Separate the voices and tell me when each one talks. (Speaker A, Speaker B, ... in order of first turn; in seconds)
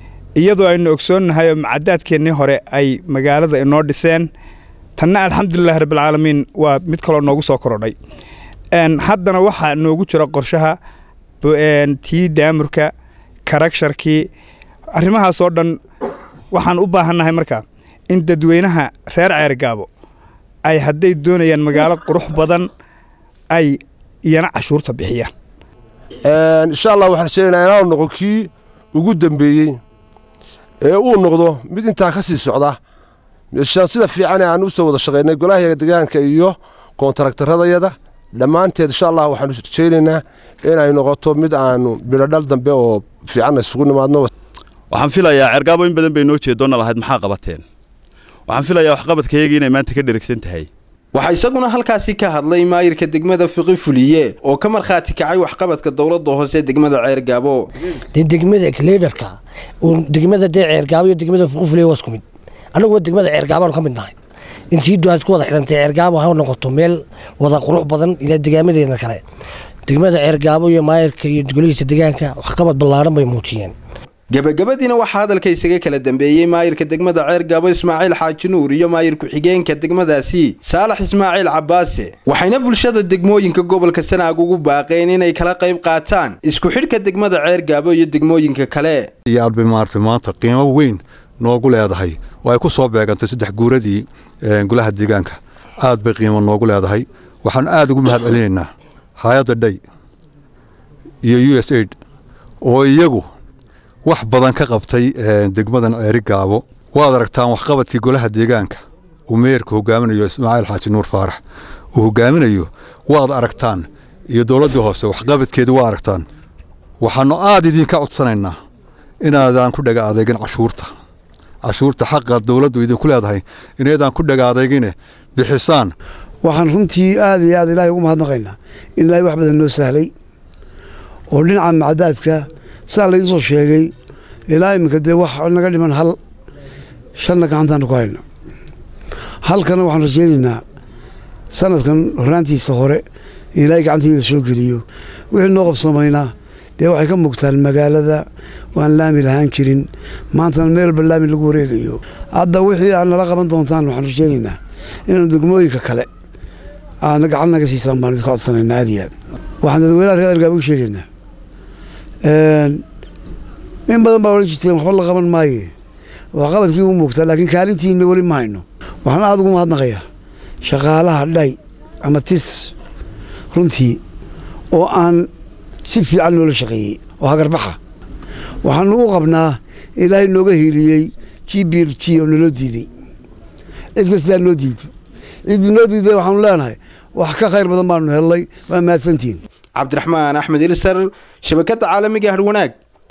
Speaker A: 0.4-4.3, 5.0-8.0, 8.8-10.8, 11.4-12.9, 13.5-14.3, 14.9-15.8, 16.5-19.9, 20.7-22.7, 23.5-25.3
Speaker B: 26.3-29.8, 30.8-32.8, 33.5-44.3
Speaker C: 44.9-47.6, 48.5-50.7
Speaker D: 51.1-57.6, 74.3-89.1, 189.8-192.7
Speaker E: 58.1-62.2, 62.7-64.2, 64.7-69.2, 69.9-73.8
Speaker F: 89.3-99.8, 101.2-102.0, 102.6-103.3, 104.0-111.4, 111.9-116.2, 117.0-118.6, 119.2-120.9, 121.6-125.9
Speaker G: 126.4-130.1, 131.3-133.9, 134.5-136.2, 137.2-138.2, 139.4-140.6, 141.5-143.0, 143.6-156.1, 157.1-161.1, 162.2-162.8, 163.9-165.7, 166.3-170.0, 170.6-172.7, 173.5-174.0, 174.7-175.3, 175.8-177.8, 178.6-182.9, 184.0-184.9, 185.5-189.4